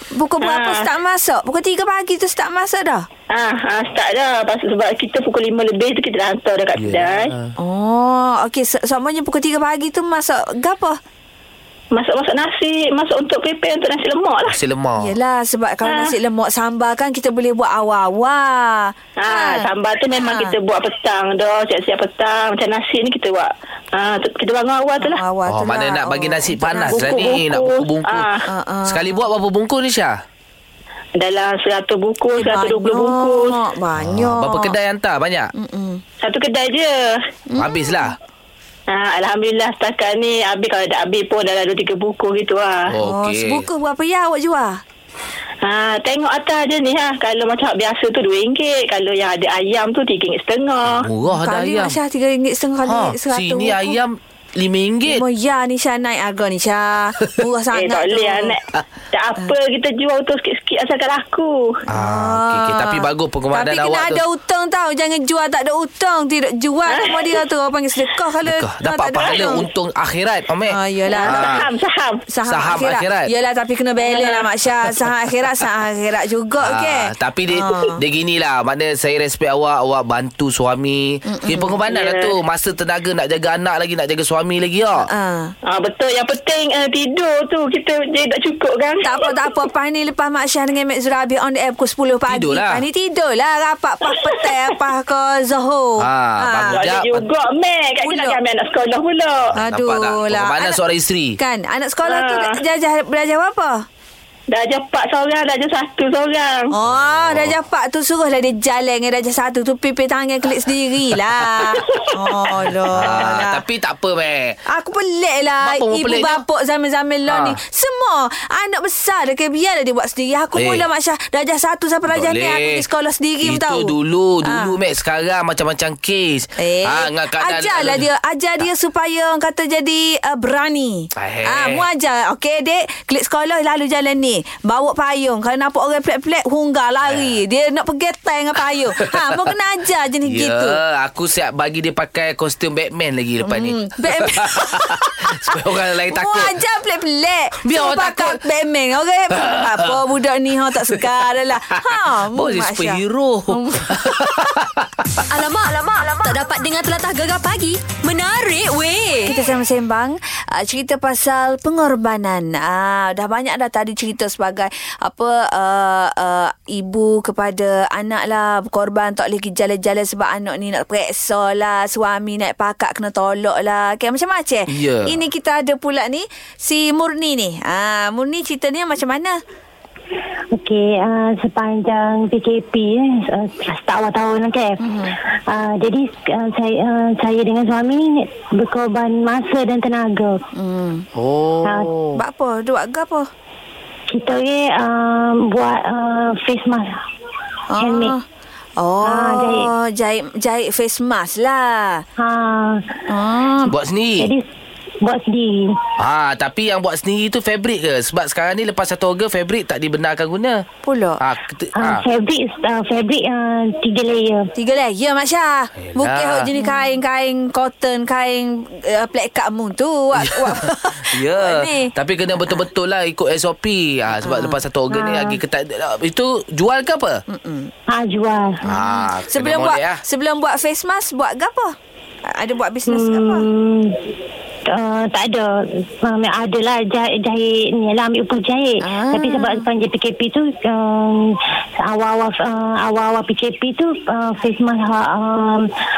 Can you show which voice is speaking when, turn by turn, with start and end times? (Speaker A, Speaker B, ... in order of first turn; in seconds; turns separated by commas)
Speaker A: 0.1-3.0, Speaker B: 0.4-0.9, Speaker B: 3.3-7.3, Speaker C: 6.8-7.5, Speaker A: 7.6-11.0, Speaker B: 11.9-14.6, Speaker C: 14.5-15.1, Speaker A: 15.0-19.7, Speaker B: 15.8-16.1, Speaker B: 19.2-25.2, Speaker A: 20.2-20.5, Speaker A: 25.0-27.3, Speaker C: 25.4-28.3, Speaker B: 26.9-28.4, Speaker A: 28.5-29.2, Speaker C: 28.9-30.2, Speaker B: 31.2-33.5, Speaker A: 32.4-34.7, Speaker C: 33.9-35.5, Speaker A: 35.5-36.0, Speaker B: 36.2-37.1, Speaker A: 37.5-38.1, Speaker C: 37.6-38.1, Speaker B: 38.9-42.9, Speaker C: 42.9-43.7, Speaker A: 43.0-44.8, Speaker B: 45.6-51.1, Speaker C: 50.9-52.0, Speaker A: 51.3-54.0, Speaker C: 52.8-55.2, Speaker A: 55.0-58.5, Speaker B: 57.7-58.6, Speaker B: 59.1-61.6, Speaker C: 61.9-64.2, Speaker A: 61.9-69.6, Speaker B: 66.9-67.4, Speaker C: 68.4-71.6, Speaker B: 69.2-69.6, Speaker A: 70.7-71.5, Speaker B: 71.1-72.2, Speaker A: 72.3-78.0, Speaker C: 72.5-73.3, Speaker B: 74.0-74.5, Speaker C: 76.6-85.1, Speaker A: 81.3-81.8, Speaker B: 81.9-82.3, Speaker A: 85.0-85.5, Speaker B: 85.7-89.4, Speaker A: 89.0-96.8, Speaker C: 92.3-92.8, Speaker C: 96.0-97.2, Speaker B: 96.7-99.5, Speaker A: 98.0-98.4, Speaker C: 99.5-101.4, Speaker A: 99.6-100.8, Speaker A: 101.4-103.7, Speaker B: 102.0-102.6, Speaker B: 104.5-106.7, Speaker A: 106.7-113.6, Speaker C: 106.8-107.6, Speaker C: 112.9-114.6, Speaker A: 114.7-123.9, Speaker C: 115.6-116.4, Speaker C: 117.3-117.6, Speaker C: 120.5-120.9, Speaker C: 122.1-122.8, Speaker C: 123.4-128.1, Speaker A: 124.4-124.7, Speaker A: 126.6-140.8, Speaker C: 131.2-131.8, Speaker C: 137.0-137.4, Speaker C: 139.0-139.4, Speaker C: 140.2-146.6, Speaker A: 143.4-145.5, Speaker A: 146.1-154.2, Speaker C: 147.6-148.4, Speaker C: 149.3-150.0, Speaker C: 150.8-155.3, Speaker D: 155.3-159.3, Speaker A: 159.2-179.4, Speaker C: 174.7-175.2, Speaker E: 180.5-190.4, Speaker A: 184.8-185.2, Speaker A: 190.5-191.1, Speaker C: 191.1-192.2, Speaker E: 191.6-191.9, Speaker A: 192.2-193.3, Speaker E: 194.1-196.9, Speaker A: 197.7-198.2, Speaker E: 197.8-198.2, Speaker A: 198.8-202.0, Speaker E: 199.0-199.7, Speaker E: 202.2-203.0, Speaker A: 203.1-203.7, Speaker C: 203.7-204.3, Speaker E: 204.2-204.4, Speaker E: 205.0-205.7, Speaker C: 206.0-210.6, Speaker A: 210.8-211.2, Speaker C: 211.2-212.0, Speaker E: 211.7-214.5, Speaker A: 214.6-222.6, Speaker C: 215.8-216.5, Speaker C: 220.1-227.2, Speaker A: 224.2-224.6, Speaker E: 224.9-225.4, Speaker A: 227.3-227.7, Speaker E: 227.9-228.6, Speaker A: 228.6-231.7, Speaker C: 228.7-230.0, Speaker A: 232.3-233.5, Speaker E: 232.8-234.0, Speaker E: 234.7-245.6, Speaker A: 238.8-239.7